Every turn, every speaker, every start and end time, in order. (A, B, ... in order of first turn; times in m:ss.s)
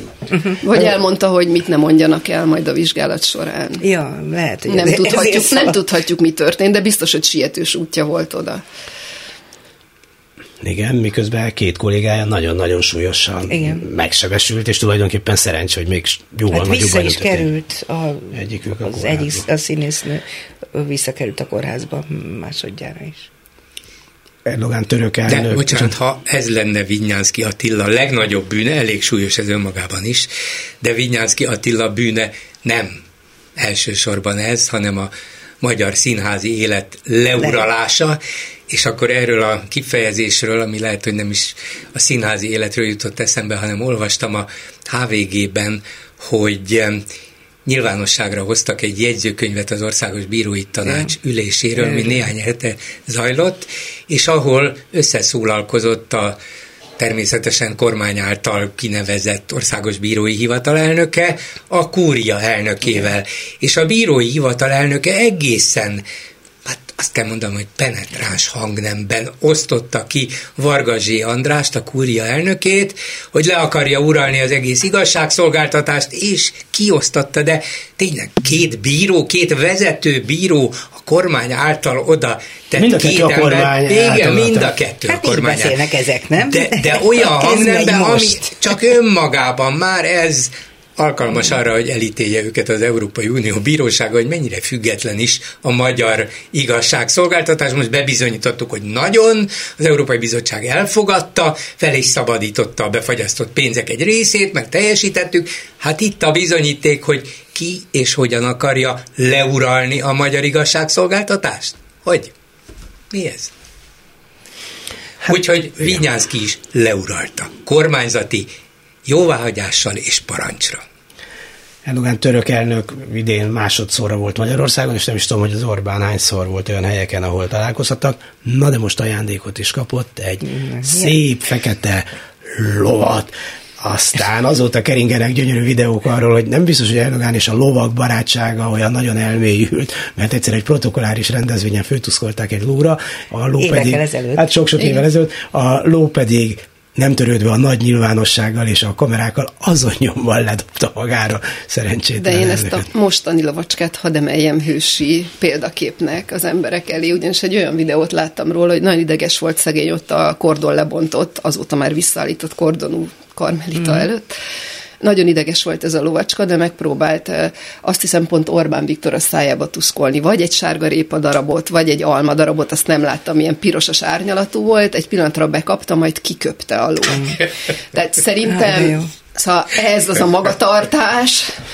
0:00.6-0:03.8 A
0:03.8-0:05.8 B
0:04.7-0:08.6 A
0:10.6-0:17.5 C
0:13.5-0:13.9 B
0:16.5-0:23.3 B
0:18.3-0:19.4 C
0:24.4-0:25.9 C
0:25.3-0:30.3 D
0:30.8-0:33.0 D
0:33.6-0:35.1 D
0:35.6-0:38.2 D
0:37.4-0:37.7 B
0:38.7-0:47.0 D
0:47.6-0:56.4 D
0:50.9-0:51.1 B
0:57.0-1:06.0 D
1:06.6-1:25.8 D
1:22.8-1:24.7 C
1:25.1-1:28.6 B
1:26.4-1:52.3 D
1:53.1-1:53.5 D
1:55.2-1:58.5 D
1:59.0-2:00.8 D
2:01.8-2:32.9 C
2:10.4-2:11.2 B
2:23.6-2:24.5 B
2:32.2-2:44.3 A
2:43.8-2:44.1 B
2:45.0-3:01.5 A
2:58.4-2:59.1 B